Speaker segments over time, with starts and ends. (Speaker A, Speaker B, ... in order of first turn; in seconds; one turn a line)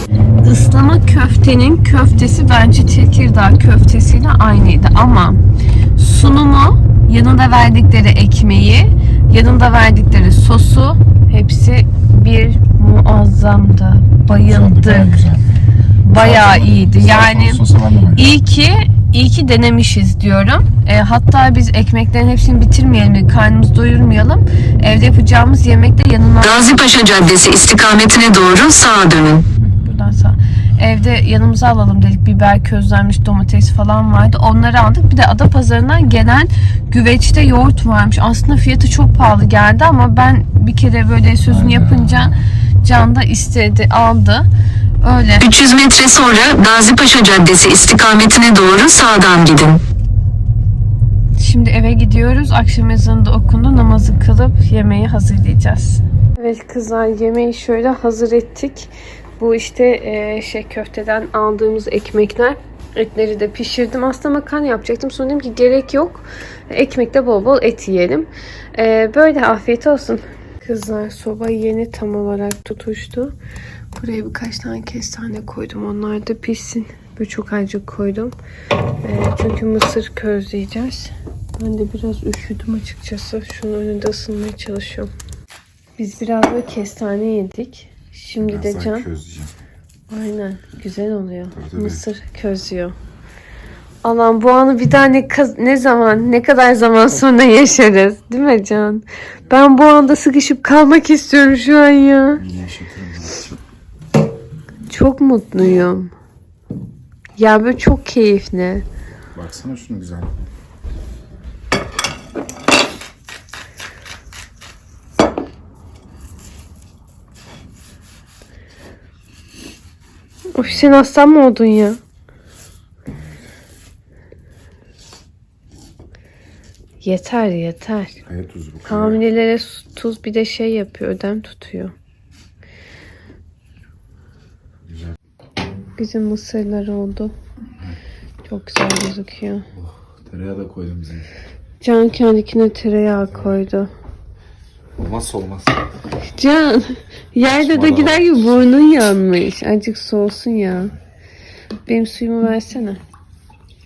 Speaker A: 0.4-5.4
Speaker A: 6.0-15.2
Speaker B: 14.3-15.5
Speaker A: 16.0-17.6
Speaker B: 16.1-18.3
Speaker A: 18.1-26.8
Speaker C: 26.4-29.5
Speaker A: 29.6-44.5
Speaker B: 41.5-42.4
Speaker A: 45.0-45.5
Speaker C: 45.4-49.8
Speaker A: 51.4-73.3
Speaker A: 74.0-78.3
Speaker A: 79.0-85.1
Speaker A: 86.0-89.1
Speaker B: 88.4-89.5
Speaker A: 90.1-93.0
Speaker B: 91.5-92.0
Speaker A: 94.0-102.4
Speaker B: 102.4-103.6
Speaker A: 104.9-106.1
Speaker A: 107.4-108.8
Speaker B: 109.3-110.4
Speaker A: 120.5-122.0
Speaker B: 120.6-120.9
Speaker A: 127.0-128.2
Speaker B: 128.2-129.2
Speaker A: 128.9-131.9
Speaker A: 136.0-137.3
Speaker A: 138.5-139.7
Speaker B: 139.7-141.3
Speaker A: 141.8-143.9
Speaker B: 143.3-143.5
Speaker B: 145.0-145.8
Speaker A: 146.3-150.9
Speaker B: 147.4-148.4
Speaker A: 151.9-153.0